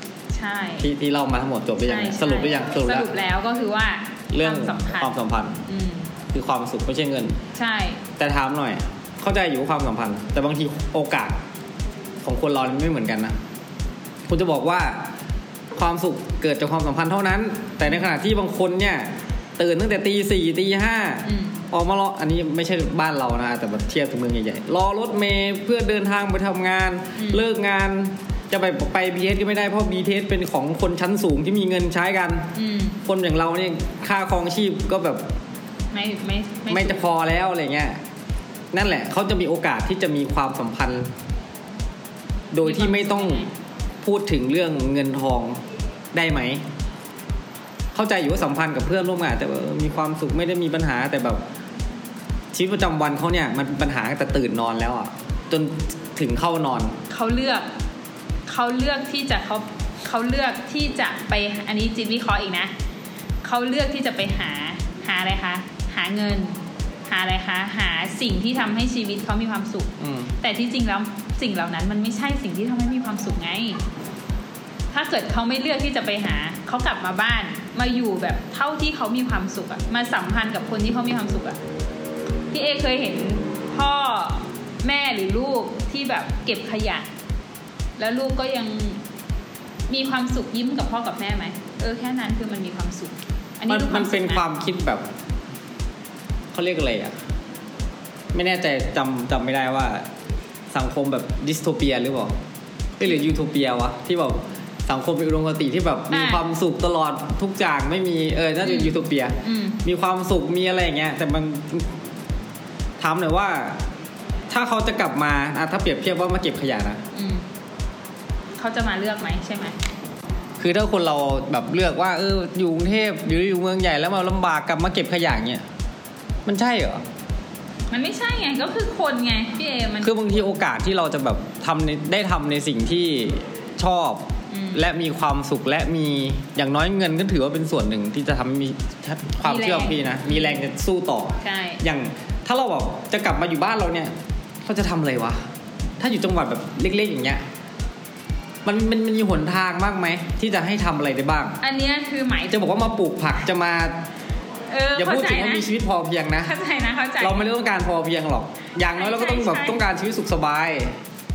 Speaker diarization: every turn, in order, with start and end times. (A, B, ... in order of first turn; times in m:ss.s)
0:00.3-0:00.9 A
0:00.8-0:03.1 B
0:01.8-0:05.1 A
0:04.3-0:05.6 B
0:05.6-0:06.1 A
0:06.3-0:07.4 B
0:07.5-0:08.0 A
0:08.2-0:11.4 B
0:12.2-0:13.4 B
0:14.3-0:15.1 B
0:15.7-0:32.5 B
0:21.2-0:21.6 A
0:27.2-0:27.4 A
0:32.5-0:33.0 A
0:33.0-0:35.2 B
0:35.9-0:37.0 A
0:36.7-0:38.0 B
0:38.7-0:41.1 B
0:42.5-0:43.4 B
0:42.6-0:43.5 A
0:44.0-0:45.6 B
0:46.1-0:46.6 B
0:47.9-0:51.4 B
0:52.5-0:57.0 B
0:57.1-0:57.7 A
0:58.5-1:02.7 A
1:03.4-1:13.8 A
1:10.0-1:10.3 B
1:14.9-1:21.6 A
1:22.5-1:27.1 A
1:28.0-1:29.0 A
1:29.9-1:34.4 A
1:33.7-1:35.1 B
1:36.5-1:37.2 B
1:38.3-1:40.1 B
1:40.7-1:42.4 B
1:43.0-1:52.0 B
1:46.1-1:46.4 A
1:48.6-1:49.8 A
1:53.0-1:53.8 B
1:54.5-1:57.0 B
1:57.1-1:57.4 A
1:58.6-1:59.8 A
2:00.6-2:05.6 B
2:06.4-2:07.0 B
2:07.9-2:10.5 A
2:10.0-2:25.5 B
2:14.5-2:14.8 A
2:19.4-2:20.6 A
2:21.4-2:21.8 A
2:26.0-2:27.4 B
2:28.6-2:31.6 B
2:31.6-2:32.9 A
2:32.5-2:34.0 B
2:34.7-2:35.7 A
2:34.9-2:36.5 B
2:36.4-2:37.5 A
2:37.2-2:41.0 B
2:38.8-2:39.8 A